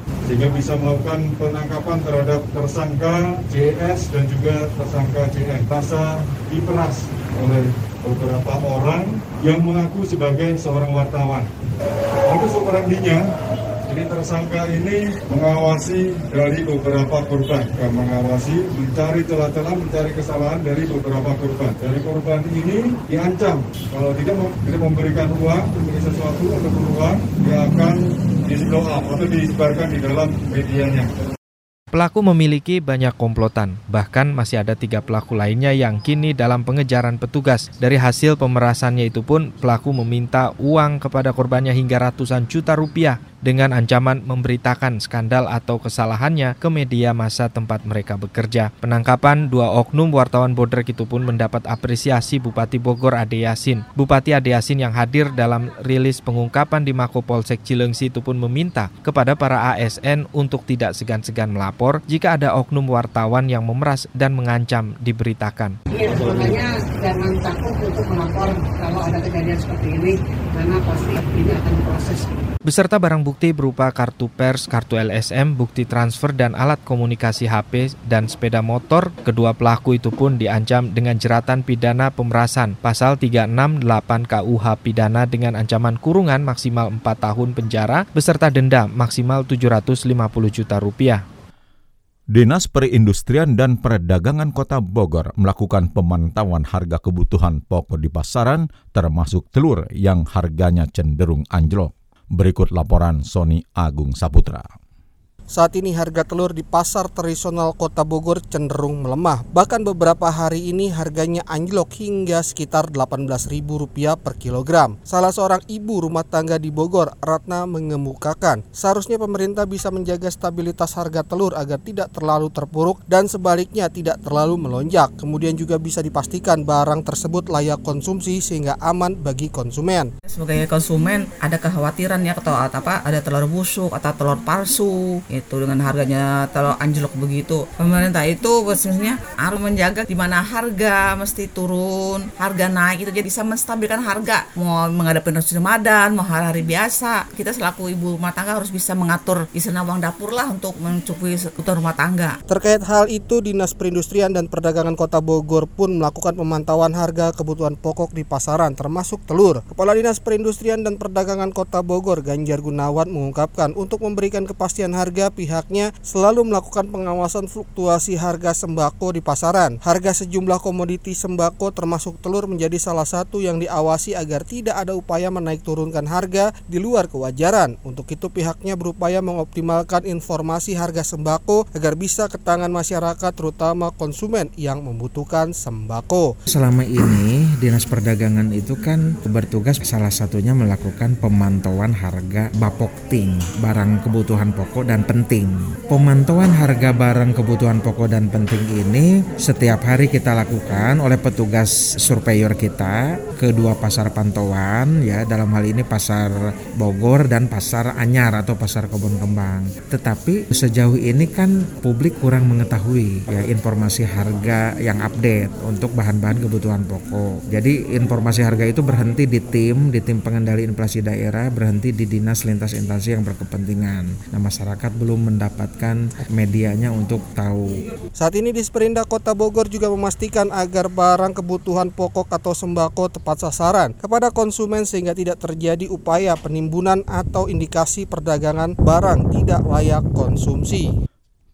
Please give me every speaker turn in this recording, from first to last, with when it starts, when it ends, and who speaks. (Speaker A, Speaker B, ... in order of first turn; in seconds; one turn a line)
Speaker A: 0.3-11.5
Speaker A: 12.3-13.2
Speaker A: 13.9-31.1
Speaker B: 31.9-65.8
Speaker C: 65.9-72.3
Speaker B: 72.7-91.2
Speaker D: 92.3-104.7
Speaker E: 105.5-130.1
Speaker F: 130.3-152.4
Speaker E: 152.5-186.3
Speaker G: 186.5-206.3
Speaker G: 206.8-227.8
Speaker E: 228.2-240.9